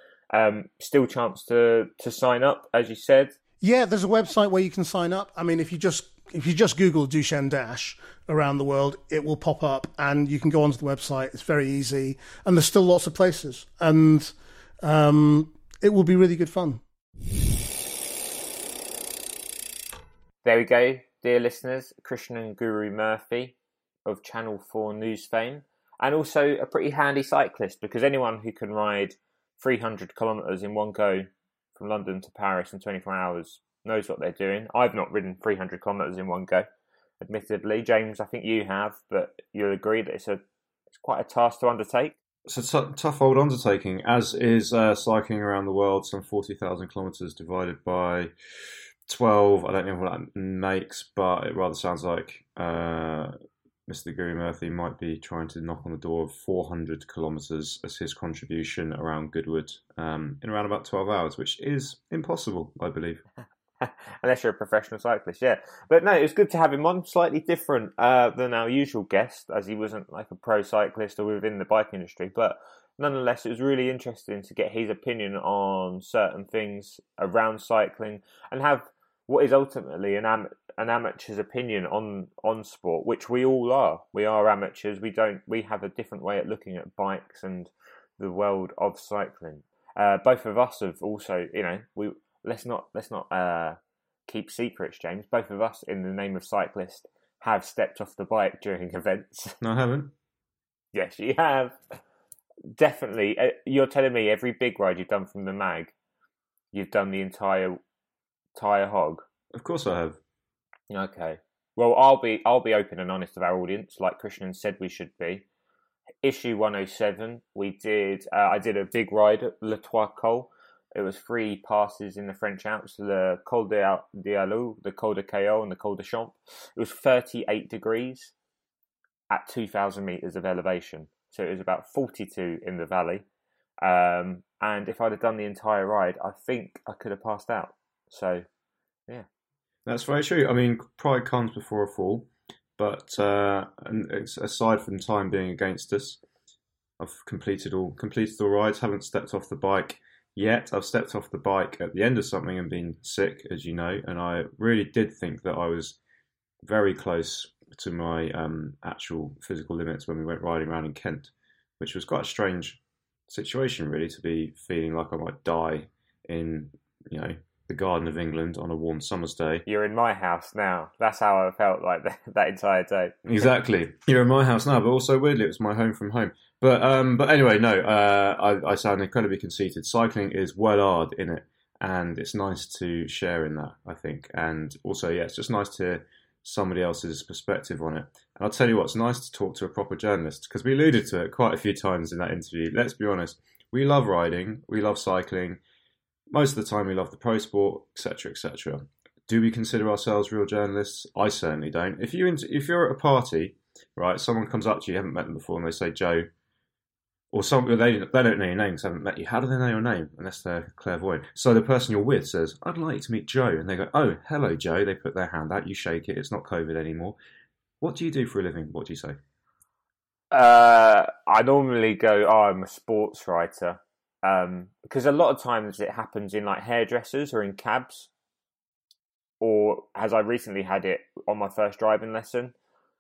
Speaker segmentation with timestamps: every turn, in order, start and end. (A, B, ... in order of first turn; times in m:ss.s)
0:00.3-0:03.4 A
0:03.6-0:16.8 B
0:20.4-0:23.6 A
0:24.1-0:36.7 A
0:37.2-0:40.4 A
0:41.0-0:42.2 A
0:42.5-0:48.3 C
0:49.1-0:53.3 C
0:53.9-1:03.2 C
1:03.8-1:39.6 A
1:39.6-1:40.1 C
1:40.9-1:41.8 A
1:42.8-1:45.9 A
1:46.7-1:47.8 A
1:48.6-1:49.3 A
1:49.5-1:50.2 C
1:50.9-1:55.4 A
1:56.2-2:08.3 A
2:09.3-2:13.2 A
2:13.8-2:18.5 A
2:19.9-2:26.2 C
2:27.0-2:36.0 C
2:36.6-2:49.6 C
2:49.7-2:53.5 A
2:53.3-3:15.6 C
3:16.3-3:26.3 C
3:27.3-3:37.2 C
3:37.8-3:39.2 C
3:40.3-3:48.1 A
3:49.4-3:52.5 A